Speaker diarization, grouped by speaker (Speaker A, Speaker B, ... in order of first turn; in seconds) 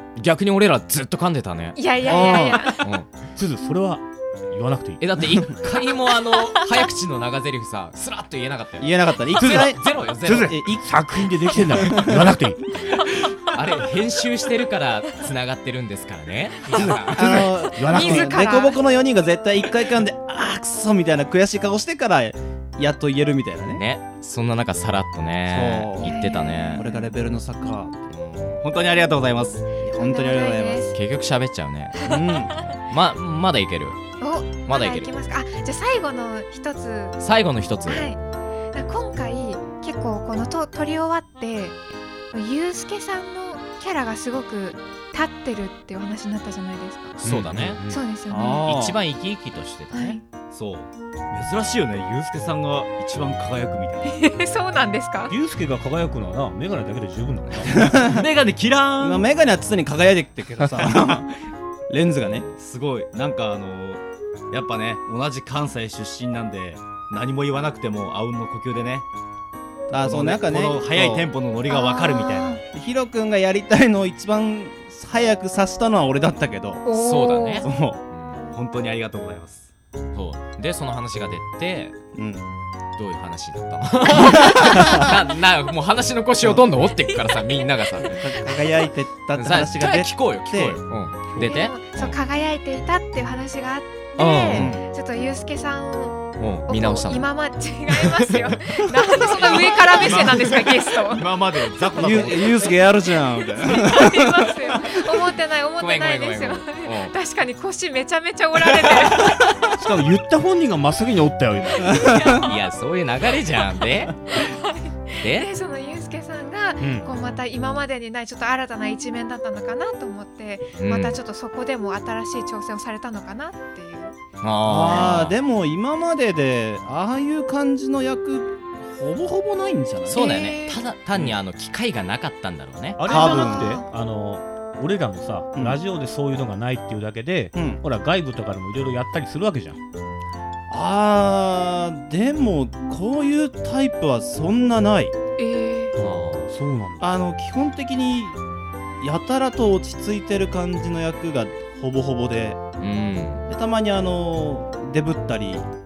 Speaker A: 0.2-3.1, 5.0-10.6, 13.2-17.5, 23.7-26.8, 28.1-28.6, 30.9-32.0, 32.6-34.0, 34.7-35.1, 37.2-38.1, 47.2-47.8, 48.6-50.2, 76.9-78.5, 80.1-82.0, 83.0-88.1, 89.4-92.2, 94.2-94.8, 96.4-97.3, 97.9-100.1, 105.8-107.1, 112.4-114.4, 115.2-115.5, 120.8-121.2, 124.4-125.3, 130.1-133.1, 146.0-146.5, 152.8-153.5
Speaker B: 1.8-2.8, 17.8-18.8, 26.0-27.1, 29.9-30.9, 34.2-37.2, 37.9-38.2, 38.7-41.8, 42.3-47.1, 47.9-48.7, 49.9-50.2, 54.1-55.3, 71.7-72.6, 76.9-77.7, 91.4-101.2, 103.6-109.5, 112.0-112.5, 114.3-124.2, 130.1-130.8, 133.1-133.8, 145.4-145.9
Speaker C: 2.0-2.7, 8.8-9.8, 10.5-10.8, 11.8-12.2, 17.1-23.8, 25.5-26.2, 26.8-28.0, 29.8-30.9, 32.0-32.5, 48.3-49.0, 57.8-58.2, 59.0-61.3, 61.9-62.5, 69.9-71.3, 72.7-76.8, 77.7-78.0, 82.2-82.5, 84.8-85.1, 88.1-90.8, 94.5-94.8, 102.0-104.3, 124.6-130.3, 133.1-133.8, 137.6-137.8, 140.7-145.1, 147.0-148.4, 149.0-152.6, 153.5-155.7
Speaker D: 3.4-5.0, 9.4-12.6, 16.7-18.4, 47.2-48.0, 55.3-58.1, 109.7-112.3, 116.8-117.1, 133.0-139.8, 146.0-147.2
Speaker E: 28.6-29.7, 50.5-54.2, 58.0-59.3, 60.8-61.2, 62.2-69.1, 69.9-72.6, 78.5-79.7, 99.3-102.8